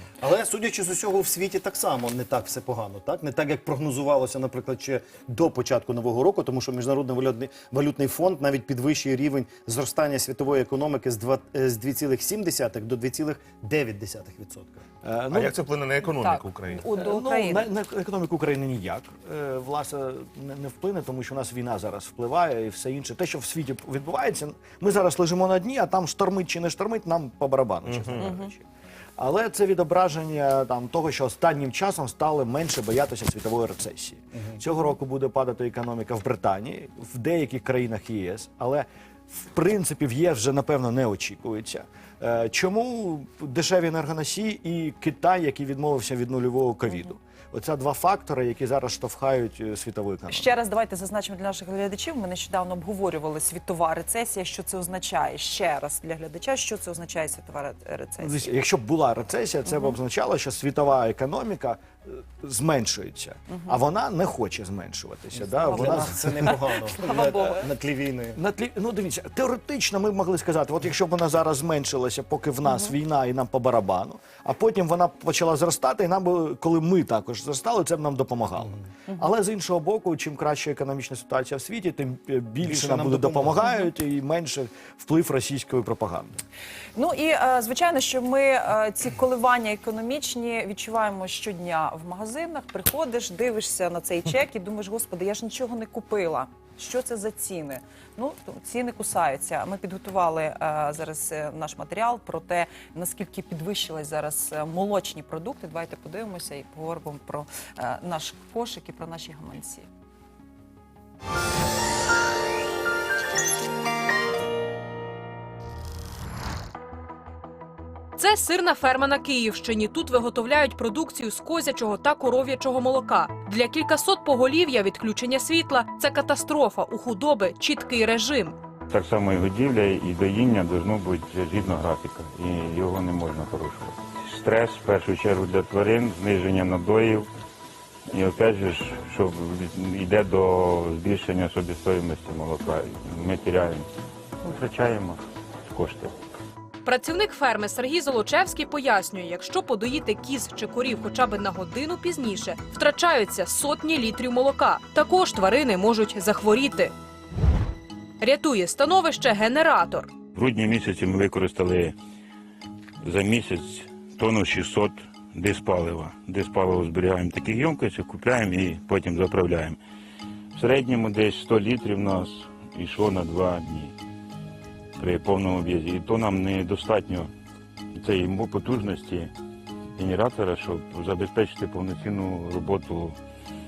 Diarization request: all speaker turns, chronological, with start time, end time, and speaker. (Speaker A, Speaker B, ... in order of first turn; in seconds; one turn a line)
Speaker A: 0.2-14.8
Speaker B: 15.0-15.6
Speaker C: 15.3-16.9
Speaker D: 16.1-17.7
Speaker B: 16.8-28.7
Speaker C: 27.8-28.3
Speaker D: 28.2-28.5
Speaker B: 29.2-50.5
Speaker D: 50.3-58.5
Speaker B: 58.2-66.5
Speaker D: 59.6-60.0
Speaker D: 63.5-63.8
Speaker A: 65.3-68.4
Speaker D: 65.6-67.7
Speaker B: 68.3-86.4
Speaker D: 72.7-72.9
Speaker A: 82.6-83.7
Speaker D: 86.9-109.9
Speaker E: 118.2-128.6
Speaker F: 128.9-137.3
Speaker F: 138.1-143.9
Speaker F: 144.4-146.1
Speaker E: 146.8-156.9
Speaker E: 158.2-160.2
Speaker F: 160.3-161.9
Speaker F: 163.0-169.8
Speaker F: 170.6-173.9
Speaker F: 175.0-177.3
Speaker F: 178.0-179.3
Speaker F: 180.0-183.2